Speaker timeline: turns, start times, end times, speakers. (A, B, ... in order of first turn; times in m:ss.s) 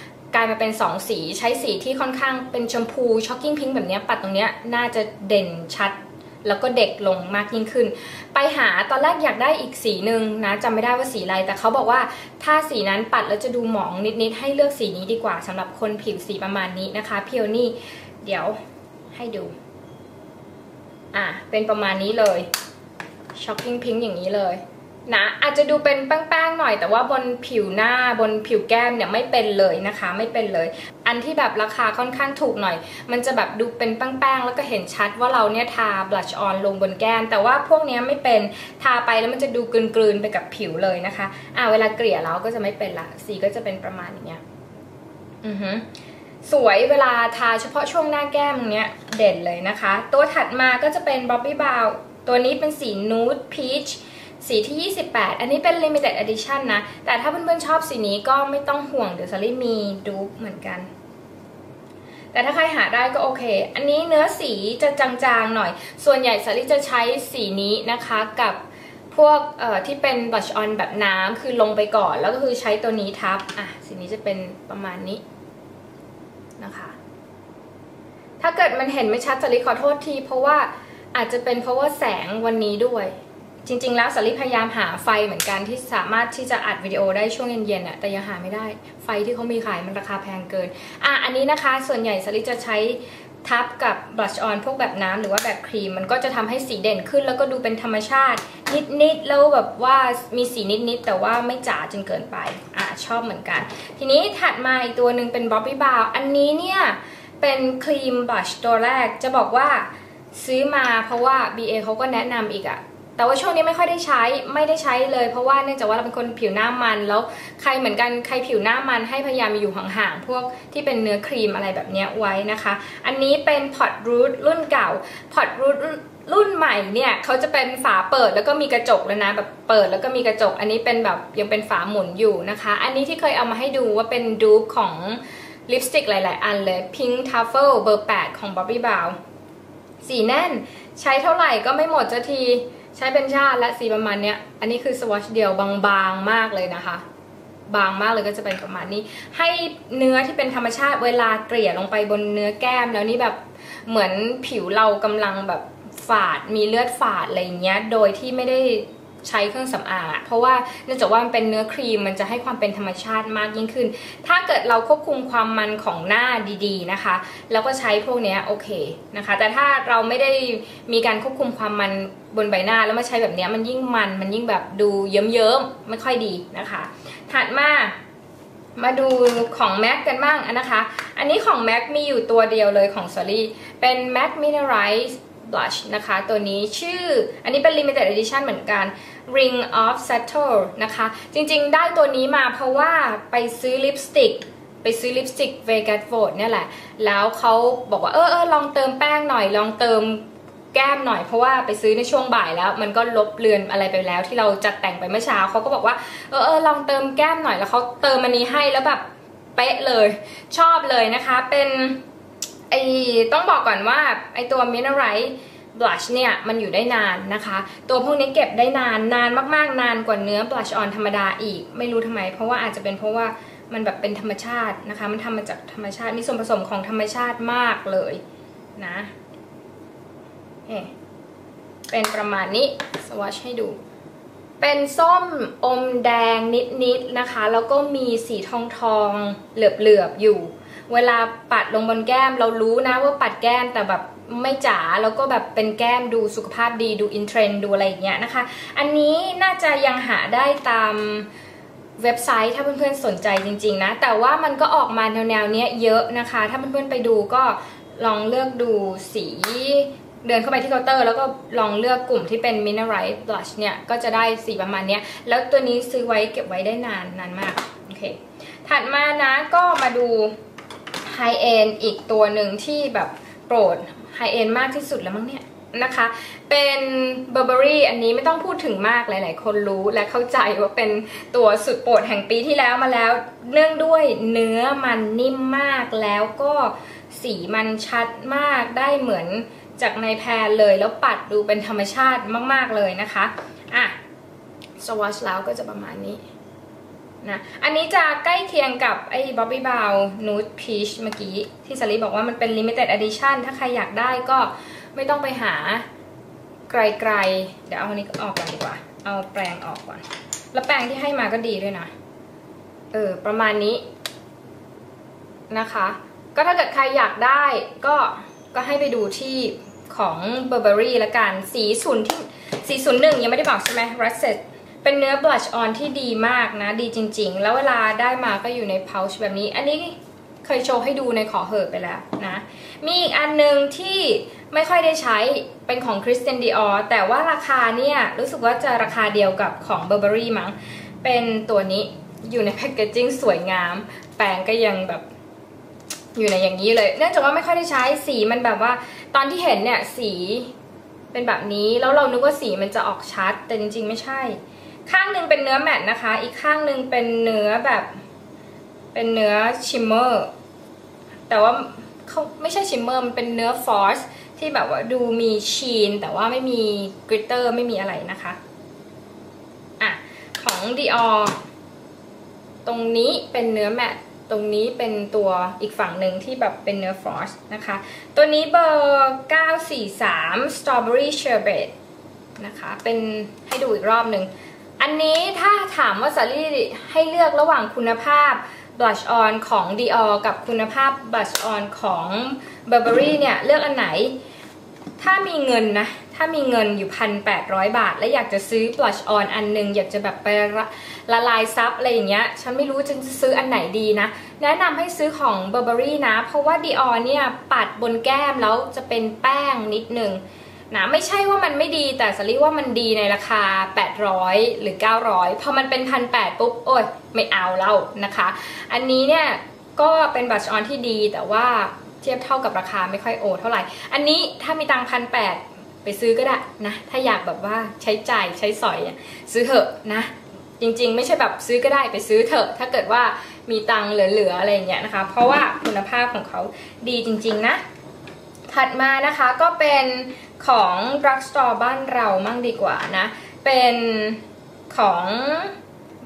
0:00.3-0:18.6 A
0:19.1-0:19.5 A
0:21.1-0:22.5 A
0:23.3-0:44.4 A
0:45.4-0:45.8 A
0:46.4-1:00.9 A
1:02.3-1:08.6 A
1:09.1-1:15.2 A
1:16.6-1:17.0 A
1:18.4-2:19.2 A
2:20.0-2:27.0 A
2:27.7-2:58.0 A
2:58.8-3:29.0 A
3:29.6-3:32.0 A
3:32.7-3:48.2 A
3:48.8-3:49.1 A
3:50.7-3:50.9 A
3:51.9-3:53.8 A
3:54.6-4:11.3 A
4:12.0-4:30.3 A
4:31.0-4:54.0 A
4:54.8-4:56.2 A
4:57.2-5:05.8 A
5:06.7-5:11.9 A
5:12.9-5:13.8 A
5:15.5-5:45.0 A
5:46.1-5:50.5 A
5:51.1-5:58.0 A
5:58.9-6:00.3 A
6:01.3-6:08.4 A
6:09.8-6:11.4 A
6:12.6-6:21.7 A
6:22.4-6:34.1 A
6:35.0-7:17.6 A
7:18.5-7:25.5 A